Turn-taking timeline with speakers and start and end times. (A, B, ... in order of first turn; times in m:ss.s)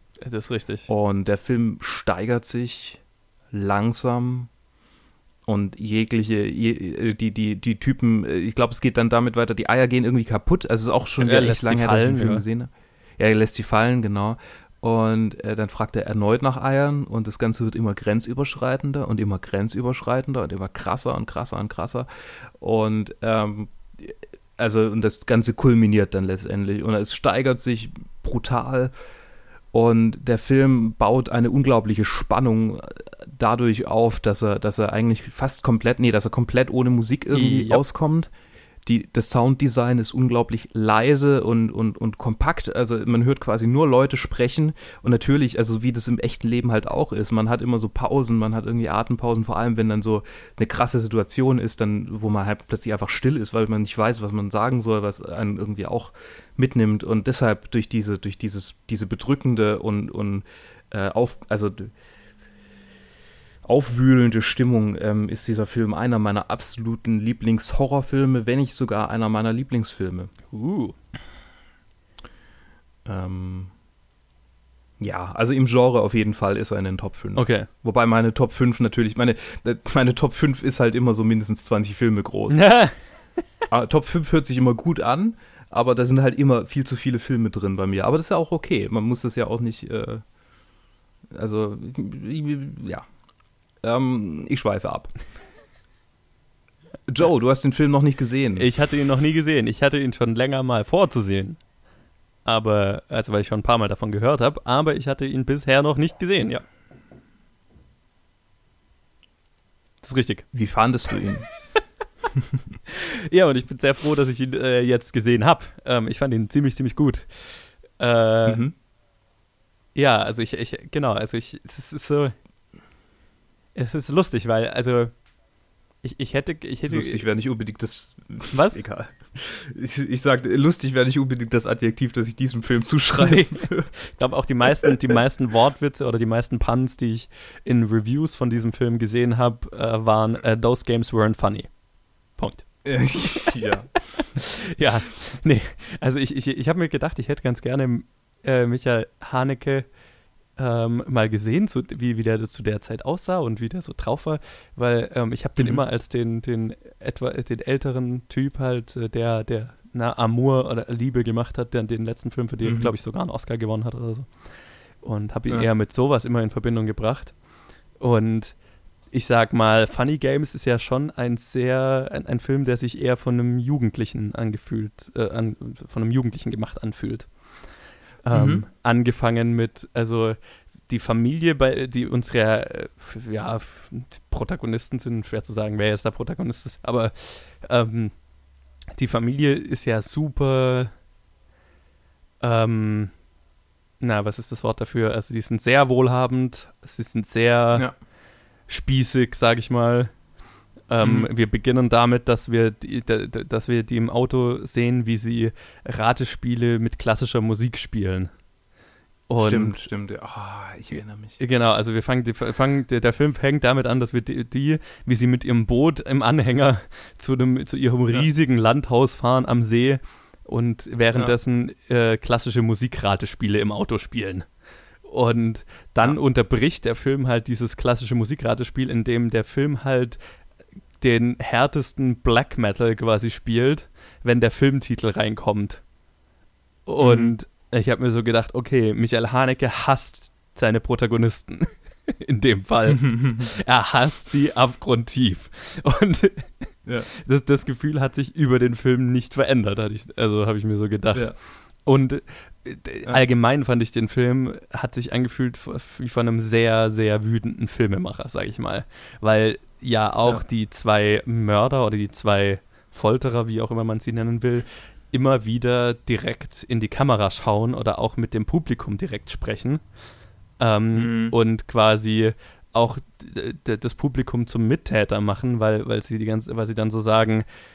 0:00.2-0:00.9 A
0:00.9-0:04.5 B
0:05.5-0:22.1 B
0:11.2-0:12.4 A
0:22.6-0:28.9 B
0:29.7-0:38.3 B
0:37.3-0:37.8 A
0:38.8-1:01.9 B
1:03.6-1:10.3 B
1:10.5-1:10.9 A
1:13.0-1:13.7 B
1:15.0-1:22.7 B
1:17.4-1:17.7 A
1:22.5-1:23.0 A
1:23.7-1:30.2 B
1:31.3-1:33.0 B
1:33.8-1:35.1 B
1:37.1-1:38.7 B
1:38.6-1:41.6 A
1:42.4-1:46.6 A
1:50.0-1:50.5 A
1:50.5-1:51.5 B
1:52.9-1:57.3 A
1:58.0-1:58.6 A
1:58.4-1:58.7 B
1:59.9-2:02.3 A
2:03.7-2:05.1 A
2:06.0-2:07.2 A
2:06.9-2:13.9 B
2:08.5-2:08.8 A
2:13.2-2:21.7 A
2:22.4-2:29.9 A
2:22.8-2:23.9 B
2:30.6-2:44.3 A
2:35.6-2:35.8 B
2:42.6-2:42.9 B
2:45.0-2:47.3 A
2:48.0-2:48.5 A
2:49.1-2:57.3 A
2:58.2-3:00.4 A
2:58.3-2:58.6 B
3:00.9-3:08.1 A
3:08.9-3:10.9 A
3:12.4-3:13.1 A
3:14.0-3:17.9 A
3:18.7-3:20.1 A
3:20.9-3:28.3 A
3:21.0-3:21.3 B
3:29.3-3:29.9 A
3:29.4-3:31.4 B
3:31.4-3:44.4 A
3:45.0-3:50.2 A
3:51.0-3:55.8 A
3:56.8-4:29.8 A
3:57.0-3:57.3 B
4:03.0-4:03.5 B
4:30.6-4:37.4 A
4:30.9-4:31.3 B